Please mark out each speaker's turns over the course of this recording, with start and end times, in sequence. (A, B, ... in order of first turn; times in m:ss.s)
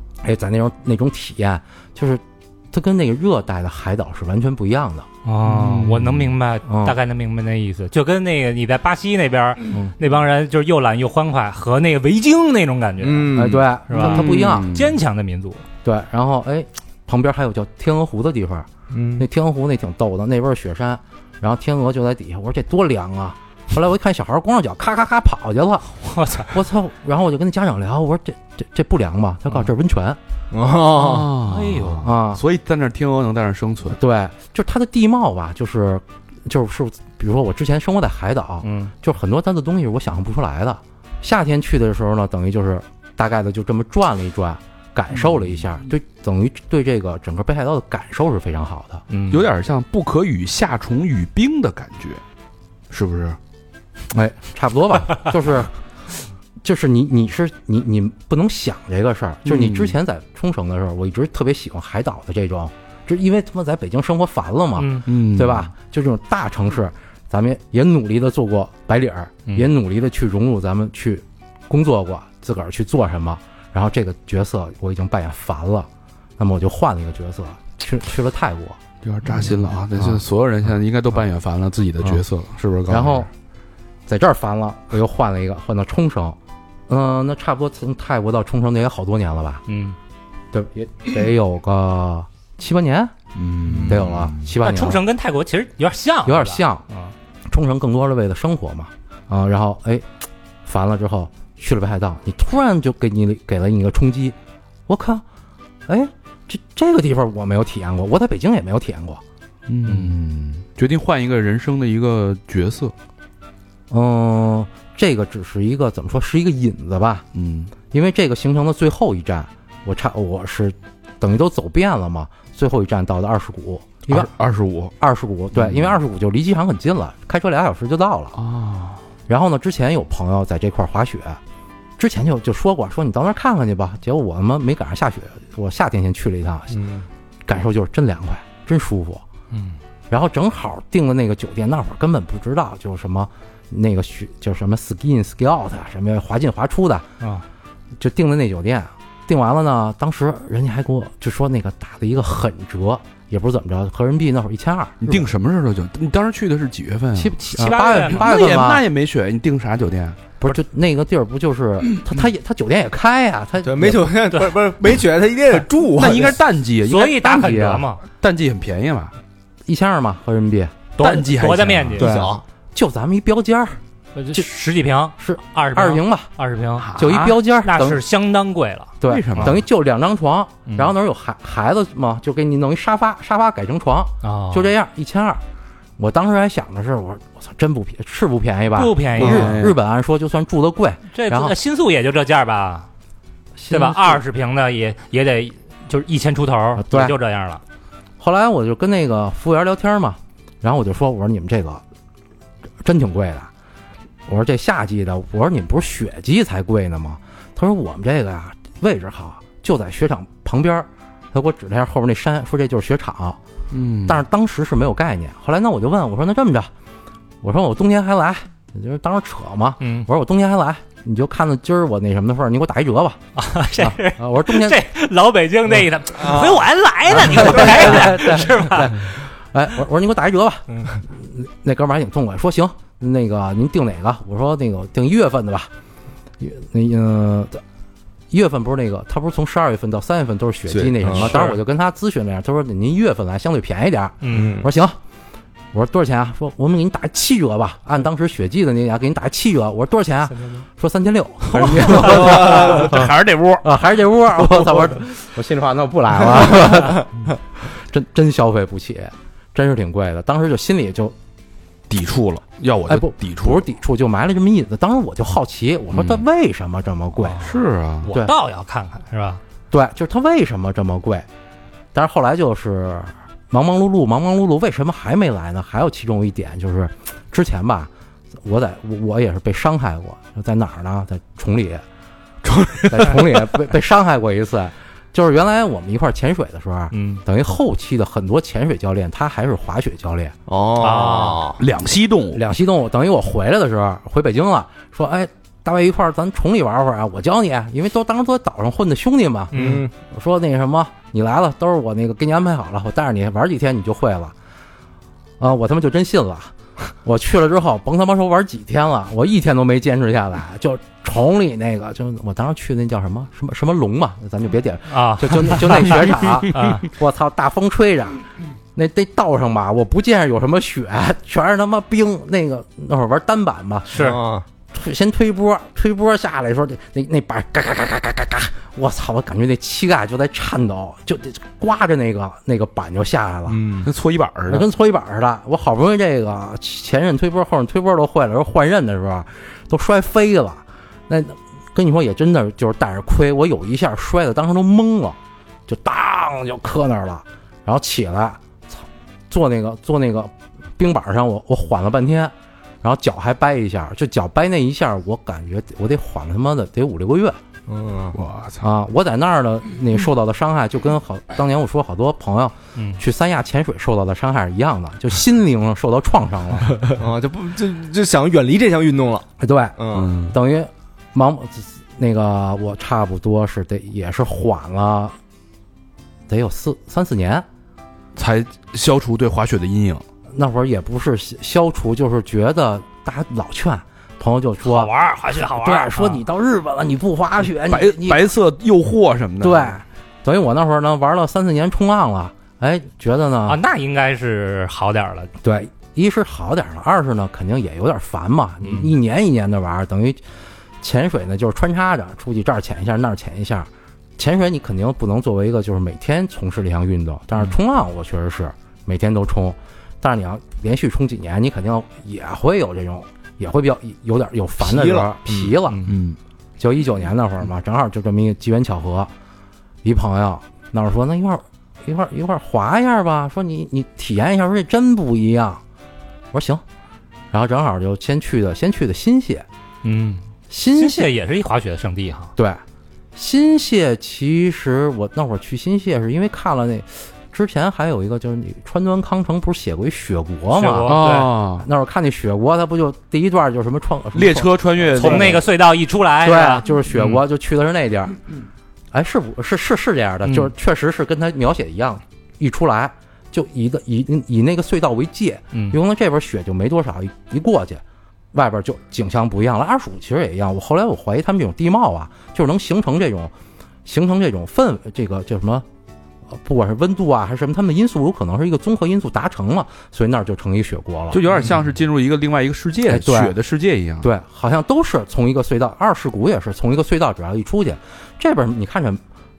0:00.2-0:05.1 A
0:05.2-0:15.6 B
0:05.4-0:06.4 C
0:06.7-0:07.0 A
0:13.0-0:13.7 D
0:13.3-0:14.7 A
0:14.0-0:15.0 C
0:15.8-0:18.7 A
0:18.9-0:19.3 D
0:19.2-0:30.2 A
0:26.1-0:26.5 B
0:30.5-0:31.3 D
0:31.0-0:34.0 C
0:31.5-0:32.1 B
0:32.0-0:32.4 A
0:34.0-0:49.1 A
0:38.6-0:38.9 B
0:45.2-0:45.6 C
0:49.1-0:49.4 B
0:49.3-0:52.2 C
0:52.9-0:53.4 C
0:54.1-0:55.7 A
0:56.6-1:15.9 A
0:59.5-1:00.0 C
1:04.8-1:05.0 B
1:05.0-1:05.7 C
1:16.4-1:18.8 A
1:19.0-1:23.3 C
1:22.9-1:23.3 A
1:24.1-1:26.4 A
1:26.9-1:29.6 A
1:29.7-1:30.0 B
1:30.5-1:33.1 A
1:33.4-1:34.5 C
1:33.9-1:35.0 A
1:34.6-1:37.1 B
1:36.2-1:36.8 A
1:37.5-1:40.1 A
1:40.7-1:44.4 A
1:44.9-1:45.2 A
1:45.9-1:49.2 A
1:49.7-1:52.9 C
1:53.9-1:57.2 A
1:57.3-1:57.7 C
1:57.9-2:04.3 A
2:04.1-2:04.9 C
2:05.0-2:08.4 A
2:05.5-2:06.0 C
2:08.4-2:09.0 C
2:09.3-2:11.4 A
2:12.0-2:16.8 A
2:16.7-2:17.1 D
2:17.5-2:19.2 A
2:19.5-2:19.8 B
2:20.1-2:27.1 A
2:27.2-2:27.4 B
2:28.0-2:35.2 A
2:35.0-2:40.2 C
2:37.2-2:38.8 A
2:37.6-2:38.2 B
2:40.4-2:44.1 A
2:43.6-2:46.4 D
2:46.0-2:49.1 C
2:46.8-2:48.0 B
2:49.7-2:50.7 A
2:51.0-2:52.1 B
2:51.0-2:52.1 C
2:52.0-2:52.4 D
2:52.0-2:53.8 A
2:54.2-2:56.9 B
2:55.2-2:56.3 A
2:56.8-2:57.4 C
2:57.0-2:58.0 A
2:57.6-2:59.6 B
2:59.0-3:05.4 A
2:59.0-2:59.6 C
3:04.2-3:04.7 B
3:06.0-3:11.5 A
3:08.8-3:09.6 B
3:09.2-3:09.8 C
3:11.1-3:12.9 B
3:13.6-3:14.2 A
3:13.7-3:17.6 B
3:16.8-3:17.1 A
3:18.2-3:21.8 A
3:22.8-3:23.5 A
3:24.3-3:33.4 A
3:33.7-3:34.2 C
3:34.1-3:36.7 A
3:37.4-3:43.2 A
3:39.8-3:40.1 B
3:43.4-3:49.0 B
3:43.8-3:44.8 A
3:46.2-3:46.6 D
3:47.1-3:55.7 A
3:47.2-3:48.0 D
3:56.4-3:57.6 A
3:58.3-4:05.0 A
4:00.7-4:01.4 D
4:01.2-4:01.6 B
4:04.2-4:04.5 B
4:04.3-4:04.7 D
4:05.7-4:13.0 A
4:11.5-4:13.7 C
4:13.6-4:17.1 A
4:17.6-4:21.2 A
4:21.9-4:23.6 C
4:22.9-4:27.4 A
4:25.9-4:26.2 C
4:27.4-4:28.1 C
4:28.1-4:28.3 A
4:28.1-4:29.4 B
4:29.7-4:31.3 A
4:31.9-4:37.9 A
4:38.4-4:41.8 A
4:42.8-4:43.2 D
4:42.9-4:50.3 A
4:46.9-4:47.2 B
4:50.5-4:51.6 D
4:50.8-4:51.5 B
4:51.6-4:52.4 C
4:52.3-5:04.3 A
4:59.5-4:59.9 B
4:59.5-4:59.9 D
5:05.4-5:18.2 A
5:14.9-5:16.9 B
5:18.8-5:23.9 A
5:23.9-5:24.2 B
5:23.9-5:24.4 D
5:24.7-5:33.6 A
5:33.5-5:33.9 D
5:33.8-5:34.6 C
5:34.5-5:57.4 A
5:57.7-5:58.2 D
5:58.1-5:58.6 C
5:58.6-6:06.7 A
6:06.9-6:10.1 D
6:09.4-6:15.2 A
6:09.9-6:10.4 C
6:16.3-6:17.5 A
6:18.2-6:20.0 C
6:20.3-6:28.2 A
6:24.6-6:26.2 B
6:27.7-6:29.8 C
6:29.4-6:33.6 A
6:33.5-6:35.3 B
6:35.4-6:40.2 A
6:38.6-6:38.9 B
6:40.8-6:55.9 A
6:54.6-6:55.6 D
6:55.8-6:56.2 C
6:56.6-6:59.1 A
6:59.8-7:05.6 A
7:06.3-7:06.6 A
7:07.3-7:09.5 A
7:09.8-7:12.3 B
7:10.5-7:11.1 A
7:12.4-7:12.6 A
7:13.2-7:21.0 A
7:20.6-7:21.3 B
7:20.9-7:21.7 C
7:21.6-7:25.4 A
7:24.1-7:25.4 C
7:25.0-7:27.2 B
7:26.2-7:28.2 A
7:28.9-7:37.8 A
7:30.2-7:30.5 B
7:38.3-7:43.3 A
7:43.8-7:45.6 A
7:46.3-7:51.2 A
7:51.1-7:54.1 C
7:52.9-7:53.4 A
7:54.0-7:59.0 A